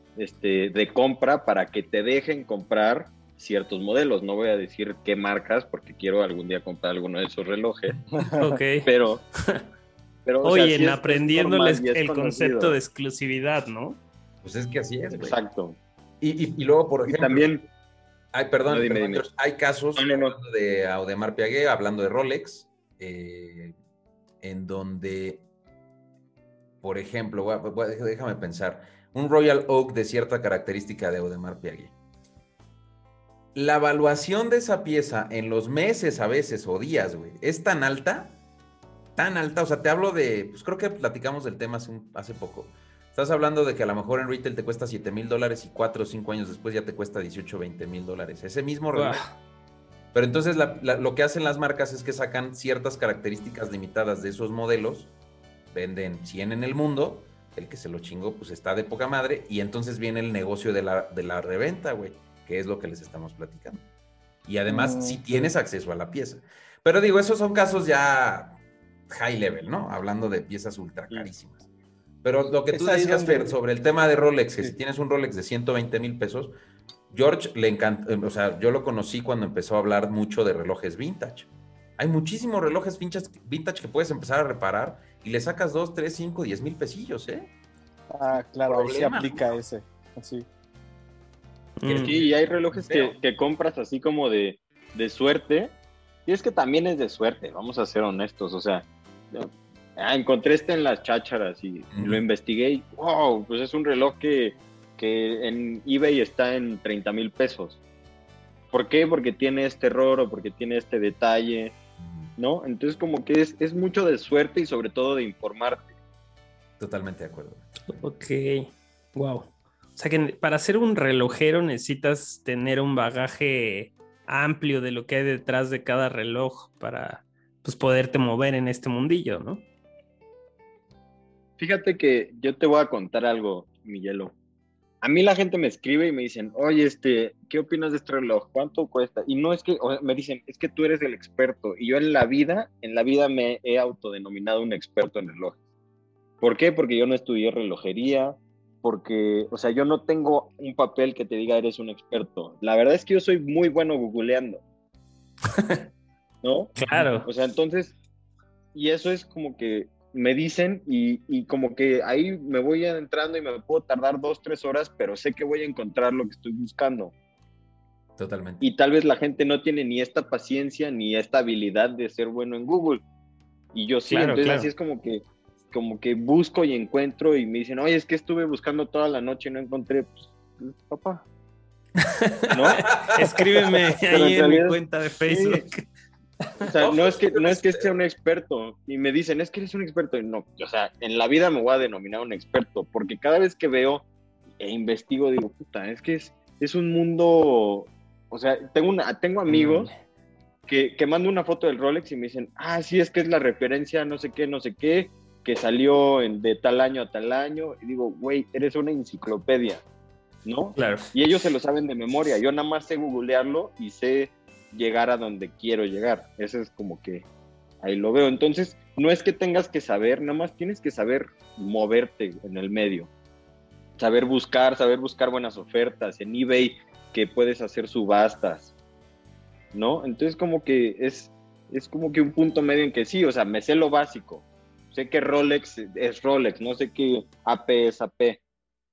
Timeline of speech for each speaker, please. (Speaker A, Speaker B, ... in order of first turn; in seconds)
Speaker A: 0.2-8.0, 8.8-9.2, 10.3-12.8, 15.1-15.8, 17.1-17.7, 18.7-19.2, 20.0-20.4, 92.0-95.8, 96.3-107.8, 108.7-111.8, 112.4-115.9, 131.6-134.3, 135.0-145.6, 146.4-154.6, 156.4-158.0, 158.7-167.1, 168.6-173.0, 173.7-181.2, 182.5-182.8, 184.1-184.8, 185.3-185.7, 186.6-194.1, 194.6-199.9, 200.7-209.8, 210.4-217.3, 217.8-223.1, 224.0-228.7, 229.7-238.4
Speaker B: 8.2-8.6, 64.7-65.2, 72.7-73.6, 88.1-90.5
Speaker C: 8.3-8.9, 10.4-14.0, 48.9-49.3, 91.8-92.2, 117.9-129.6, 155.5-155.8, 156.8-157.3, 174.1-174.7, 182.0-185.8, 199.5-199.9, 210.8-211.1
Speaker D: 14.4-15.4, 16.2-17.5, 18.3-23.8, 24.4-25.4, 26.8-31.9, 33.5-38.4, 39.2-49.2, 50.1-55.1, 55.7-63.9, 64.5-71.7, 72.2-76.5, 77.1-87.5, 88.6-89.6, 91.8-93.2, 101.9-102.2, 112.0-112.3, 116.8-117.7, 156.9-157.2, 168.2-168.7, 182.9-183.2, 186.8-187.9